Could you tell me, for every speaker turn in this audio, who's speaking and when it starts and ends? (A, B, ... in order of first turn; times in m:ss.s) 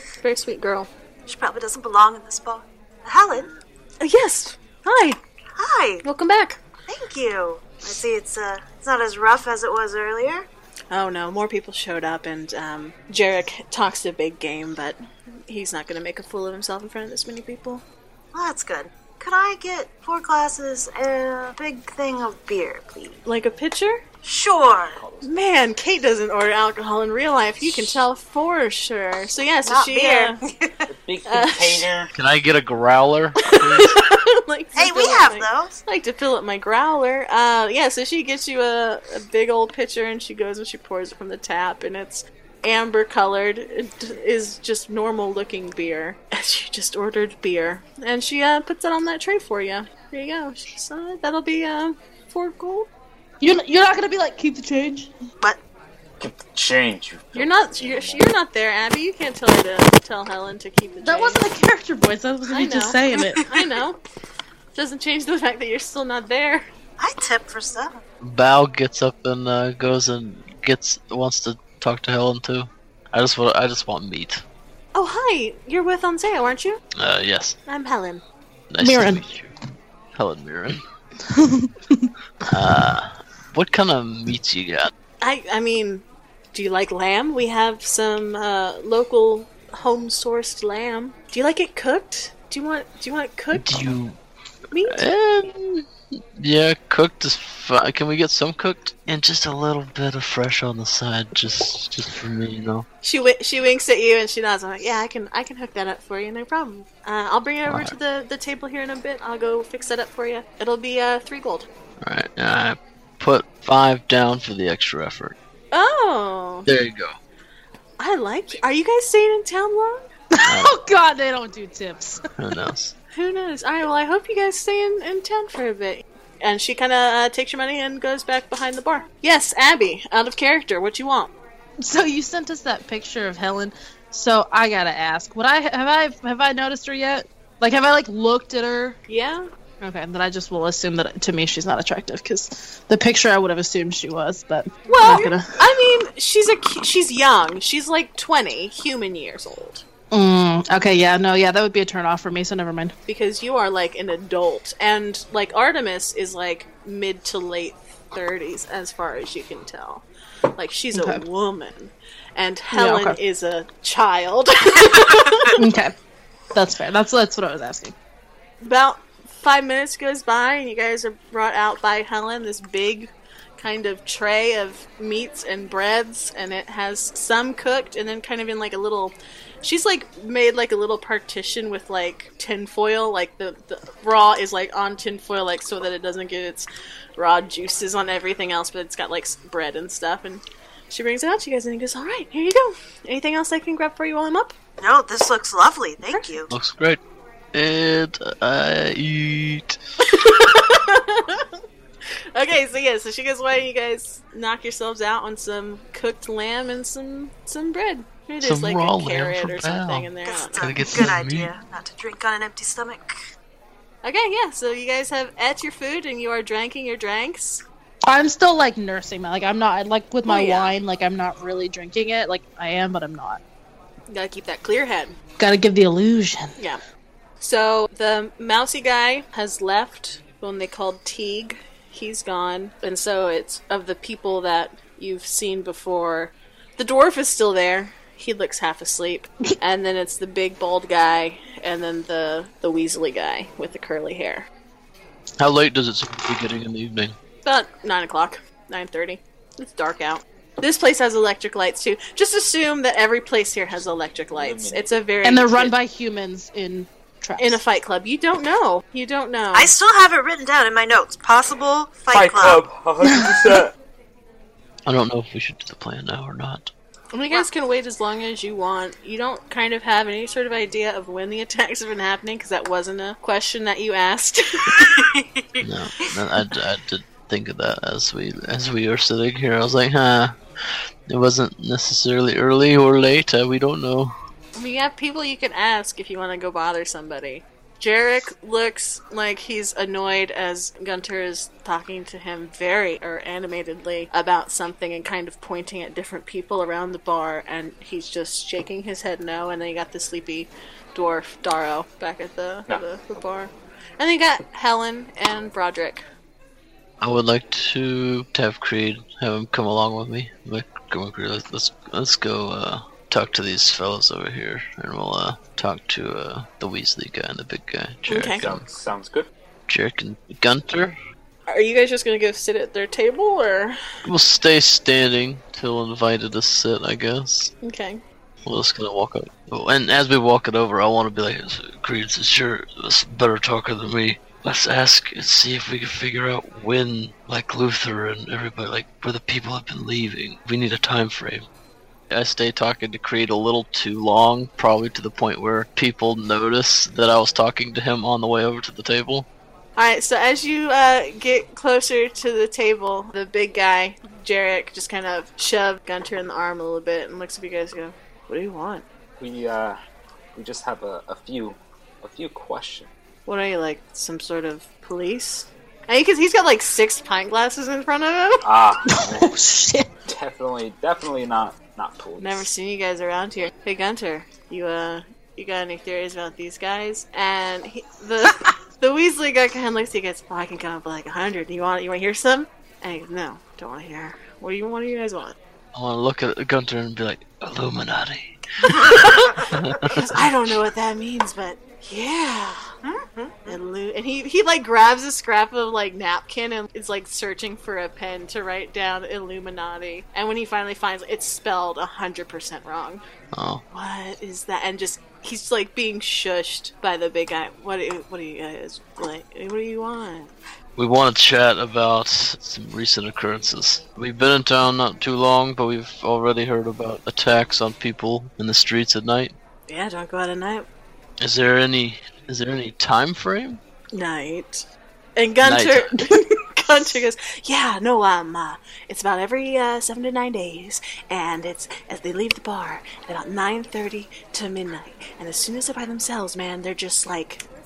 0:00.2-0:00.9 A
0:01.3-0:03.6 B
0:04.0-0:05.2 A
0:05.6-0:06.0 B
0:06.0-0:06.6 A
0:06.9-0:10.5 B
0:10.9-0:17.8 A
0:18.3-0:23.2 B
0:23.2-0:24.0 A
0:24.2-0:25.0 B
0:24.9-0:25.3 C
0:25.2-0:30.4 A
0:29.6-0:30.9 B
0:30.9-0:32.1 C
0:31.3-0:31.9 A
0:32.2-0:34.0 D
0:33.5-0:52.9 A
0:34.8-0:35.7 B
0:53.4-0:55.1 E
0:56.2-0:58.3 C
0:57.3-1:01.4 A
1:01.0-1:03.4 E
1:02.5-1:04.0 A
1:04.7-1:06.7 A
1:07.0-1:08.0 B
1:08.2-1:14.4 D
1:15.0-1:16.8 A
1:17.0-1:17.6 D
1:17.7-1:18.2 A
1:18.7-1:19.5 D
1:18.8-1:19.2 E
1:20.1-1:20.8 D
1:21.3-1:22.1 E
1:22.5-1:24.9 D
1:25.2-1:33.9 A
1:33.5-1:34.2 D
1:34.7-1:35.0 A
1:34.9-1:35.8 D
1:36.4-1:42.9 D
1:43.0-1:51.7 A
1:47.7-1:48.0 D
1:52.0-1:55.4 D
1:55.7-1:56.7 A
1:56.7-1:57.2 D
1:58.0-2:00.0 A
2:00.3-2:02.2 E
2:00.5-2:00.7 D
2:02.4-2:02.9 D
2:03.1-2:11.3 A
2:11.8-2:19.0 E
2:19.1-2:19.5 A
2:19.8-2:25.6 E
2:24.9-2:29.8 A
2:30.1-2:32.9 E
2:33.1-2:40.0 A
2:40.6-2:45.6 A
2:40.9-2:41.2 E
2:42.7-2:43.2 E
2:45.6-2:46.0 E
2:46.5-2:47.9 E
2:48.6-3:14.6 A
3:14.8-3:16.5 B
3:16.5-3:17.0 D
3:17.5-3:19.8 D
3:20.0-3:21.5 A
3:22.3-3:30.7 A
3:28.4-3:31.5 D
3:30.2-3:33.1 B
3:34.0-3:37.6 A
3:38.1-3:43.4 E
3:40.2-3:40.8 A
3:44.1-3:45.2 A
3:45.4-3:46.6 E
3:47.4-4:04.5 A
4:05.4-4:07.2 D
4:07.4-4:15.7 A
4:14.3-4:14.9 C
4:15.2-4:17.6 E
4:17.4-4:19.7 A
4:19.5-4:22.6 B
4:22.1-4:23.7 C
4:24.9-4:26.7 D
4:27.1-4:34.9 A
4:34.8-4:35.6 B
4:35.6-4:40.4 D
4:41.1-4:44.1 D
4:44.6-5:06.0 A
5:07.0-5:18.6 D
5:18.1-5:18.4 A
5:18.4-5:19.3 C
5:19.7-5:21.0 D
5:21.5-5:23.8 A
5:24.1-5:27.5 D
5:27.6-5:28.0 A
5:28.4-5:41.4 D
5:42.1-5:49.3 D
5:49.8-5:58.8 A
5:59.2-5:59.8 C
6:00.4-6:02.9 C
6:03.3-6:08.4 A
6:08.4-6:09.3 C
6:08.9-6:09.9 E
6:10.1-6:12.5 C
6:12.2-6:25.4 A
6:25.7-6:30.6 D
6:28.7-6:32.6 A
6:32.8-6:33.6 B
6:33.5-6:43.0 A
6:43.3-6:43.6 D
6:43.7-6:50.3 A
6:50.8-6:59.3 D
6:59.7-7:00.7 A
7:01.2-7:03.6 D
7:03.9-7:04.6 A
7:05.2-7:17.4 A
7:05.4-7:05.9 D